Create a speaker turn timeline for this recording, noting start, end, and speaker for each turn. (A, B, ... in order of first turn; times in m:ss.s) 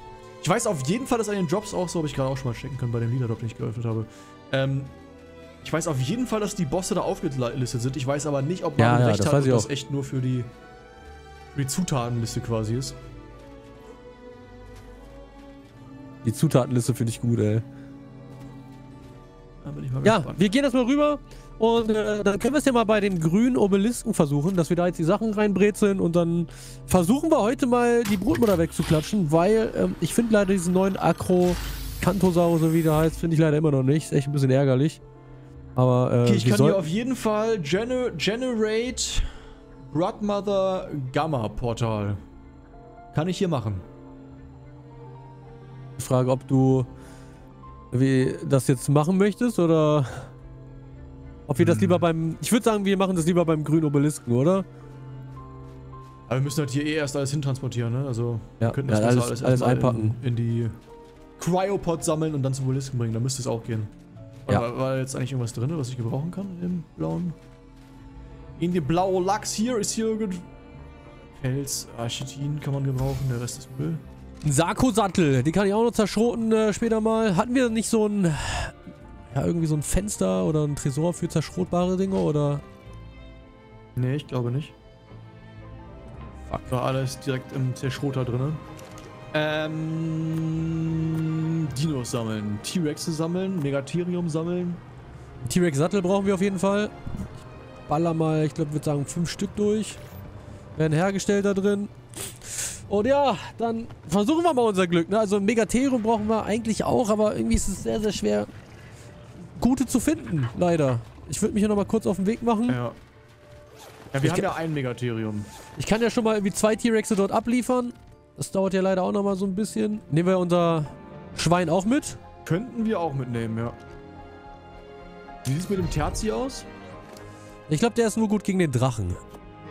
0:00.4-0:04.9 A
0:05.6-0:10.5 A
0:08.8-0:09.7 B
0:11.5-0:13.0 A
0:16.2-0:17.6 B
0:19.6-0:20.5 A
0:20.0-0:35.0 B
0:35.8-0:36.8 B
0:36.2-0:39.4 A
0:39.9-0:42.2 A
0:43.1-0:43.8 A
0:46.0-0:46.9 B
0:47.9-0:50.3 B
0:51.5-0:54.6 B
0:51.6-0:52.0 A
0:56.3-1:00.8 A
0:58.6-1:00.2 B
1:01.4-1:03.9 A
1:04.5-1:07.4 A
1:08.6-1:10.5 A
1:11.4-1:14.0 A
1:14.4-1:18.8 B
1:19.3-1:22.6 B
1:24.0-1:24.7 A
1:26.5-1:26.7 B
1:26.7-1:28.6 A
1:29.3-1:34.8 A
1:35.4-1:36.9 B
1:37.9-1:40.0 B
1:40.8-1:48.5 B
1:49.6-1:52.8 B
1:52.7-1:53.0 A
1:54.1-1:55.5 A
1:54.2-1:54.5 B
1:55.8-2:02.2 B
2:02.4-2:03.8 A
2:05.4-2:06.7 A
2:07.7-2:09.2 B